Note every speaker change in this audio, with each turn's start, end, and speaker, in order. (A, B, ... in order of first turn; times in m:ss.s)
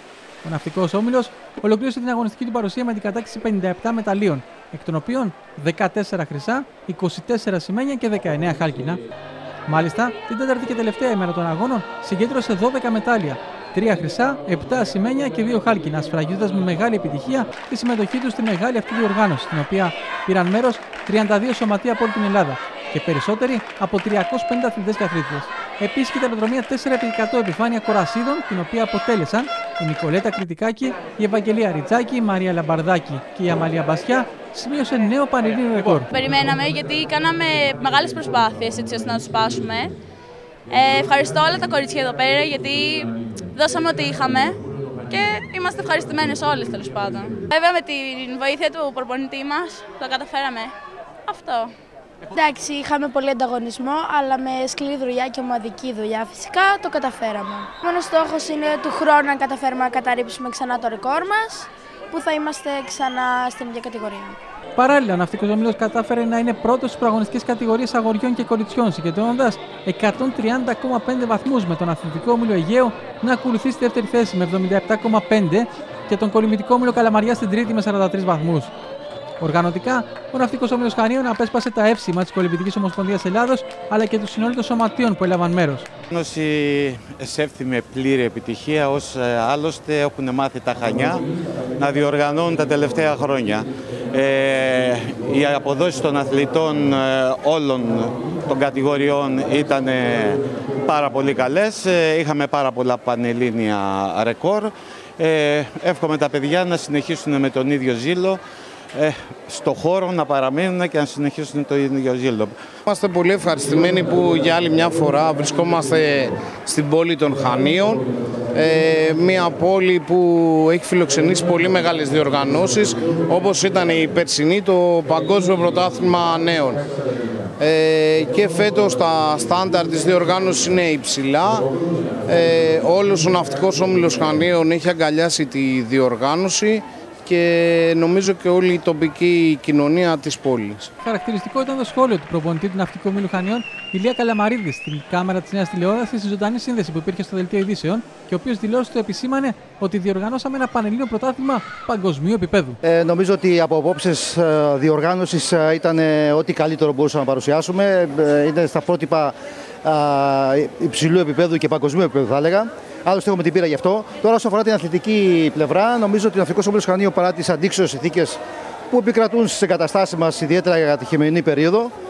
0:00.4-0:09.0 A
0:09.7-0:36.1 A
0:36.1-0:39.9 B
0:40.7-0:44.6 B
0:45.1-0:50.7 B
0:51.3-0:51.7 B
0:52.3-1:04.4 C
1:04.8-1:18.7 A
1:19.4-1:25.9 A
1:26.1-1:31.2 D
1:31.8-1:48.4 D
1:48.9-1:52.5 D
1:52.9-2:06.8 E
2:07.6-2:11.7 E
2:12.3-2:20.9 E
2:21.0-2:32.8 A
2:32.8-2:48.4 F
2:48.9-2:51.9 F